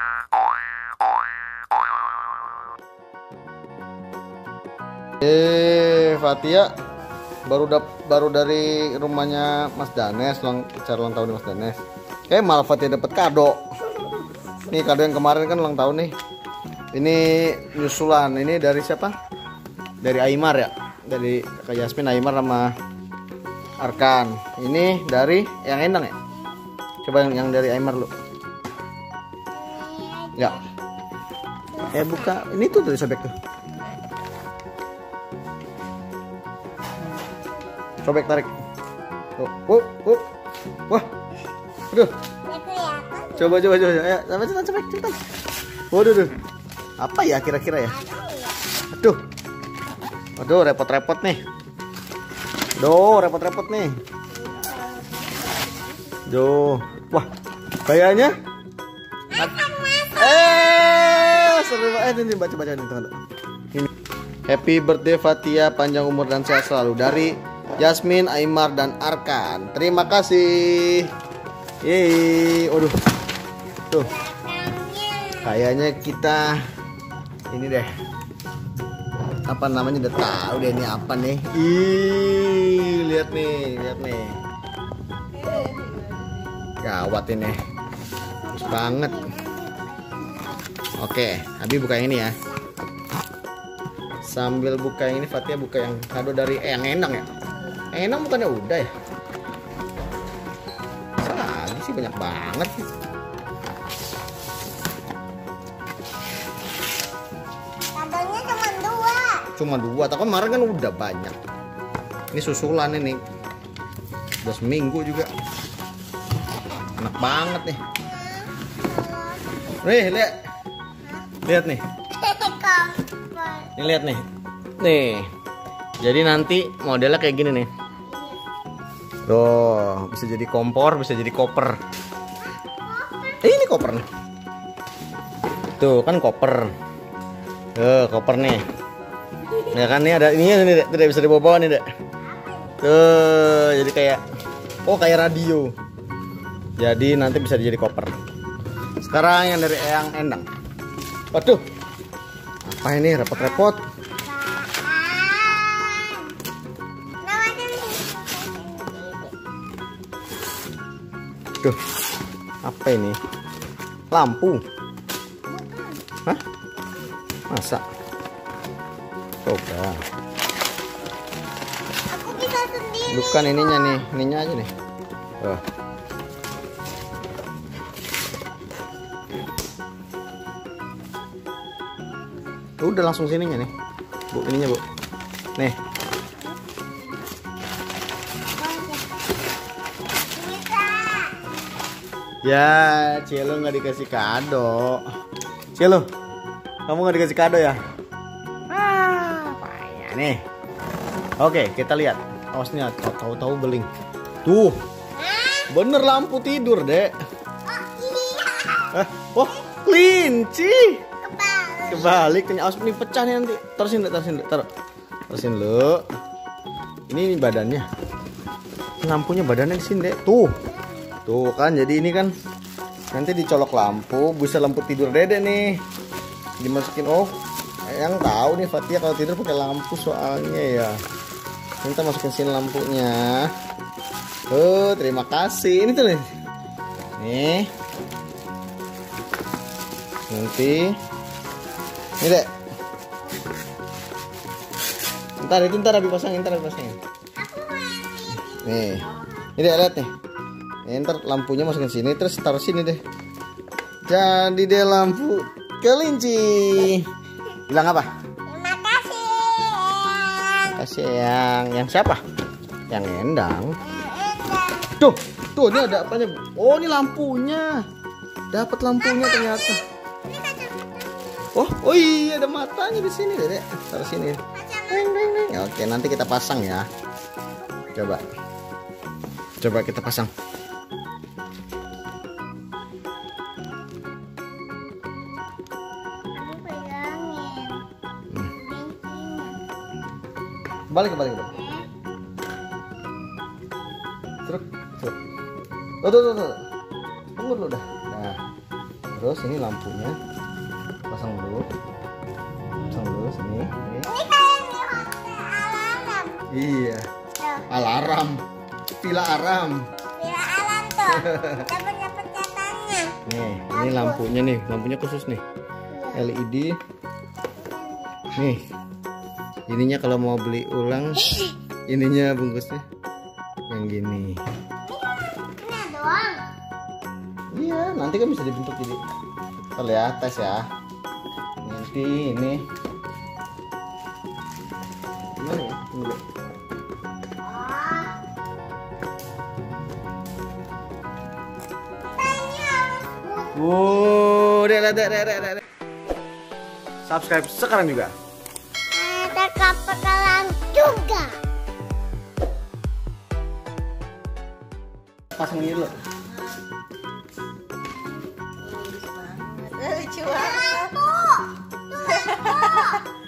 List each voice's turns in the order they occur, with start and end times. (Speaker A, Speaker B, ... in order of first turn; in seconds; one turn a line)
Speaker A: 5.2-6.7
Speaker A: 7.5-11.8
Speaker A: 12.3-14.1
Speaker A: 14.7-16.1
Speaker A: 16.9-19.1
Speaker A: 20.0-22.7
Speaker A: 23.8-26.1
Speaker A: 27.0-28.1
Speaker B: 29.6-30.6
Speaker B: 31.7-32.3
Speaker A: 31.9-33.3
Speaker A: 38.0-38.5
Speaker A: 39.4-40.2
Speaker B: 42.5-43.5
Speaker A: 43.4-45.2
Speaker A: 45.9-46.3
Speaker A: 47.0-48.0
Speaker B: 47.9-48.6
Speaker A: 48.9-49.2
Speaker A: 50.4-51.4
Speaker A: 52.8-54.0
Speaker C: 54.5-55.9
Speaker A: 56.3-57.3
Speaker A: 57.9-58.3
Speaker B: 59.3-60.6
Speaker A: 60.1-63.1
Speaker A: 64.4-71.1
Speaker A: 71.8-72.9
Speaker B: 74.0-75.6
Speaker A: 75.4-76.6
Speaker A: 77.5-77.9
Speaker A: 79.5-84.4
Speaker C: 85.3-86.8
Speaker A: 86.8-87.6
Speaker B: 88.4-90.7
Speaker A: 88.5-89.3
Speaker A: 91.0-92.4
Speaker A: 94.2-97.3
Speaker A: 97.9-98.9
Speaker A: 101.2-102.9
Speaker B: 107.9-109.5
Speaker A: 109.6-111.3
Speaker A: 112.3-113.2
Speaker A: 114.4-115.3
Speaker A: 117.0-117.8
Speaker B: 118.1-119.9
Speaker A: 119.8-120.3
Speaker A: 121.4-121.8
Speaker B: 122.1-123.8
Speaker A: 123.8-124.2
Speaker A: 124.8-125.3
Speaker A: 126.0-127.7
Speaker B: 128.1-128.4
Speaker A: 129.2-131.8
Speaker B: 132.8-133.4
Speaker A: 133.4-134.1
Speaker A: 135.8-136.7
Speaker A: 137.8-138.6
Speaker A: 139.7-141.8
Speaker B: 142.2-142.8
Speaker A: 142.8-144.2
Speaker A: 144.8-145.7
Speaker A: 146.8-148.1
Speaker A: 149.0-150.4
Speaker A: 151.3-151.6
Speaker A: 152.6-153.8
Speaker B: 153.3-153.7
Speaker B: 154.2-156.3
Speaker B: 157.2-159.3
Speaker A: 162.6-163.2
Speaker A: 164.1-164.6
Speaker B: 165.5-166.0
Speaker A: 167.5-167.8
Speaker A: 169.4-170.0
Speaker B: 172.1-174.0
Speaker A: 173.1-174.7
Speaker A: 182.8-183.7
Speaker A: 184.3-184.8
Speaker B: 188.5-189.1
Speaker B: 190.3-191.3
Speaker A: 192.4-195.0
Speaker A: 195.8-196.0
Speaker A: 196.9-197.8
Speaker A: 198.7-200.4
Speaker A: 201.4-203.9
Speaker A: 204.4-204.8
Speaker B: 205.2-205.7
Speaker A: 205.7-207.1
Speaker B: 207.7-208.9
Speaker A: 208.9-211.1
Speaker B: 211.2-212.1
Speaker A: 211.8-214.7
Speaker A: 215.3-216.0
Speaker A: 217.1-217.9
Speaker A: 219.0-220.6
Speaker B: 220.6-221.2
Speaker A: 221.2-222.3
Speaker A: 223.1-225.8
Speaker A: 226.6-227.3
Speaker A: 227.9-231.0
Speaker A: 231.8-233.5
Speaker A: 234.5-236.3
Speaker A: 237.2-237.7
Speaker A: 240.3-241.0
Speaker A: 242.2-242.4
Speaker A: 245.4-247.0
Speaker B: 247.4-249.1
Speaker A: 248.6-250.1
Speaker A: 250.8-253.0
Speaker A: 254.1-257.1
Speaker A: 257.7-258.1
Speaker B: 258.5-260.8
Speaker A: 260.8-262.2
Speaker A: 262.9-263.8
Speaker B: 263.8-264.9
Speaker A: 264.9-267.8
Speaker A: 268.5-269.8
Speaker B: 269.1-271.5
Speaker A: 271.5-276.9
Speaker B: 274.5-275.2
Speaker B: 277.5-277.9
Speaker A: 277.9-278.2
Speaker A: 279.6-280.3
Speaker B: 286.4-287.8
Speaker B: 288.5-289.6
Speaker A: 290.9-291.5
Speaker B: 291.5-291.9
Speaker A: 294.4-295.2
Speaker A: 296.0-296.6
Speaker A: 297.4-298.4
Speaker A: 299.1-300.2
Speaker A: 301.1-301.6
Speaker A: 302.9-304.1
Speaker B: 304.1-306.4
Speaker A: 306.5-307.1
Speaker B: 307.4-307.7
Speaker A: 307.7-308.4
Speaker A: 309.0-309.9
Speaker B: 310.2-313.2
Speaker A: 311.1-311.7
Speaker A: 313.2-315.4
Speaker B: 313.7-314.2
Speaker B: 315.9-316.3
Speaker A: 316.1-316.8
Speaker B: 317.6-318.4
Speaker A: 318.4-318.6
Speaker A: 319.7-321.4
Speaker A: 321.9-322.8
Speaker A: 323.7-324.4
Speaker B: 324.9-326.4
Speaker A: 327.5-329.0
Speaker A: 329.8-330.6
Speaker A: 331.6-332.6
Speaker A: 335.4-336.2
Speaker B: 337.4-338.1
Speaker B: 342.2-343.6
Speaker A: 343.5-345.6
Speaker A: 347.0-348.1
Speaker B: 348.9-351.4
Speaker A: 355.3-355.9
Speaker C: 356.3-356.6
Speaker C: 358.6-361.1
Speaker B: 360.3-363.0
Speaker C: 362.1-363.0